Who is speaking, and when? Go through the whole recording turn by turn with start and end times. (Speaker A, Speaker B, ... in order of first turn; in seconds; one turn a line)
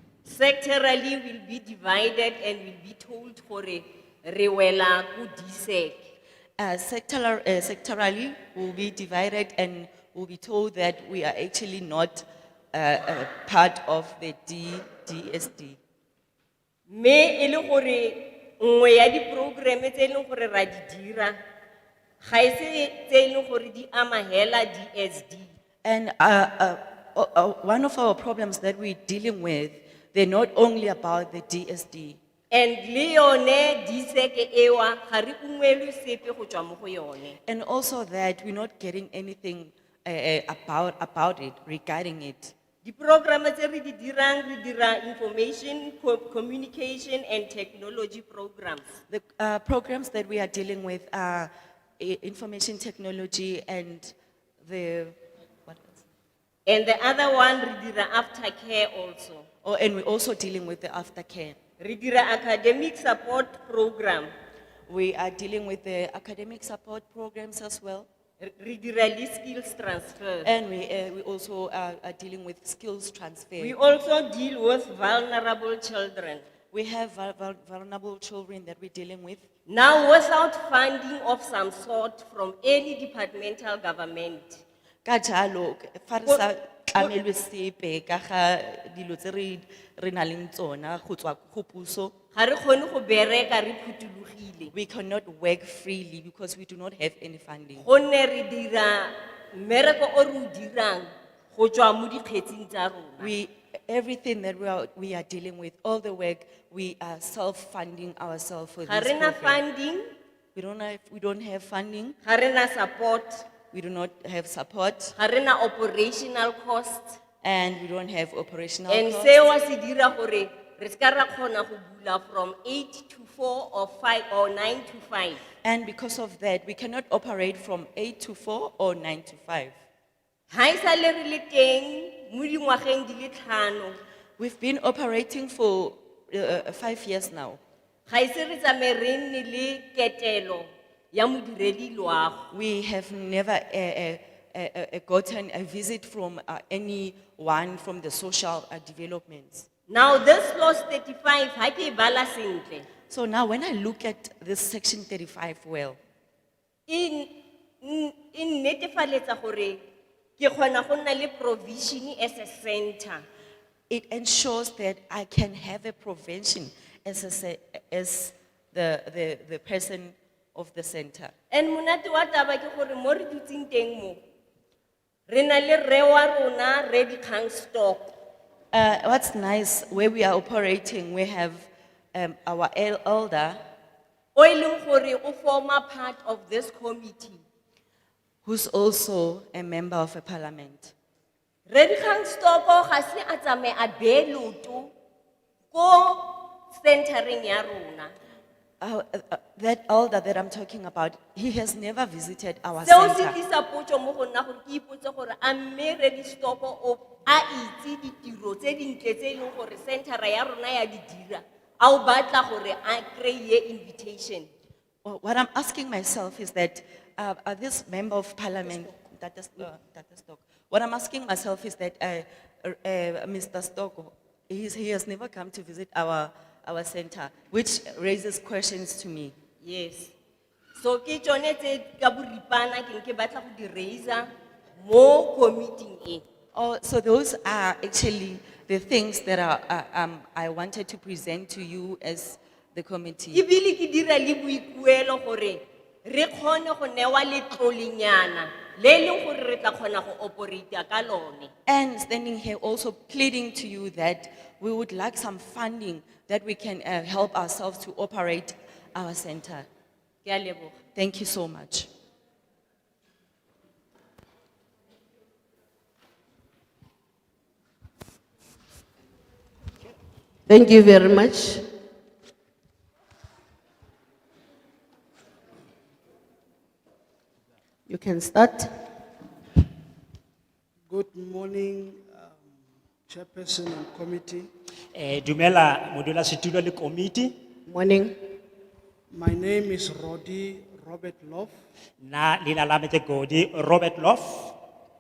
Speaker A: 0.2-6.1
Speaker B: 6.6-15.8
Speaker A: 16.9-21.4
Speaker A: 22.2-25.5
Speaker B: 25.8-32.2
Speaker A: 32.5-37.4
Speaker B: 37.5-42.5
Speaker A: 42.8-48.9
Speaker B: 49.1-56.0
Speaker A: 56.6-59.4
Speaker B: 59.6-61.6
Speaker A: 61.8-64.3
Speaker B: 64.9-68.1
Speaker A: 68.4-70.5
Speaker B: 70.4-73.8
Speaker A: 73.6-76.4
Speaker B: 76.7-79.4
Speaker A: 79.7-84.6
Speaker B: 85.0-92.1
Speaker A: 92.3-94.7
Speaker B: 94.7-97.8
Speaker A: 97.8-103.3
Speaker B: 103.2-109.6
Speaker A: 108.9-110.0
Speaker B: 110.5-112.2
Speaker A: 112.2-113.4
Speaker B: 113.7-115.1
Speaker A: 115.2-117.2
Speaker B: 117.4-119.4
Speaker A: 118.9-125.4
Speaker B: 125.6-129.8
Speaker A: 130.5-134.0
Speaker B: 134.4-137.6
Speaker A: 138.1-142.5
Speaker B: 142.5-149.7
Speaker A: 149.9-152.9
Speaker B: 153.1-156.0
Speaker A: 156.9-159.8
Speaker A: 160.4-163.2
Speaker B: 163.9-171.3
Speaker A: 171.5-174.2
Speaker A: 175.3-178.1
Speaker B: 178.7-183.6
Speaker A: 184.3-187.4
Speaker B: 188.4-190.9
Speaker A: 191.7-194.9
Speaker A: 195.7-198.1
Speaker B: 198.8-203.3
Speaker A: 202.8-214.5
Speaker B: 215.0-229.3
Speaker A: 229.6-230.1
Speaker A: 230.8-236.2
Speaker B: 236.5-243.4
Speaker A: 243.3-251.5
Speaker B: 251.7-259.7
Speaker A: 260.2-260.8
Speaker B: 260.9-261.9
Speaker C: 270.5-271.6
Speaker C: 277.9-278.7
Speaker D: 280.9-282.4
Speaker D: 283.1-284.5
Speaker E: 284.9-287.3
Speaker C: 287.7-288.1
Speaker D: 289.1-291.5
Speaker E: 292.0-294.5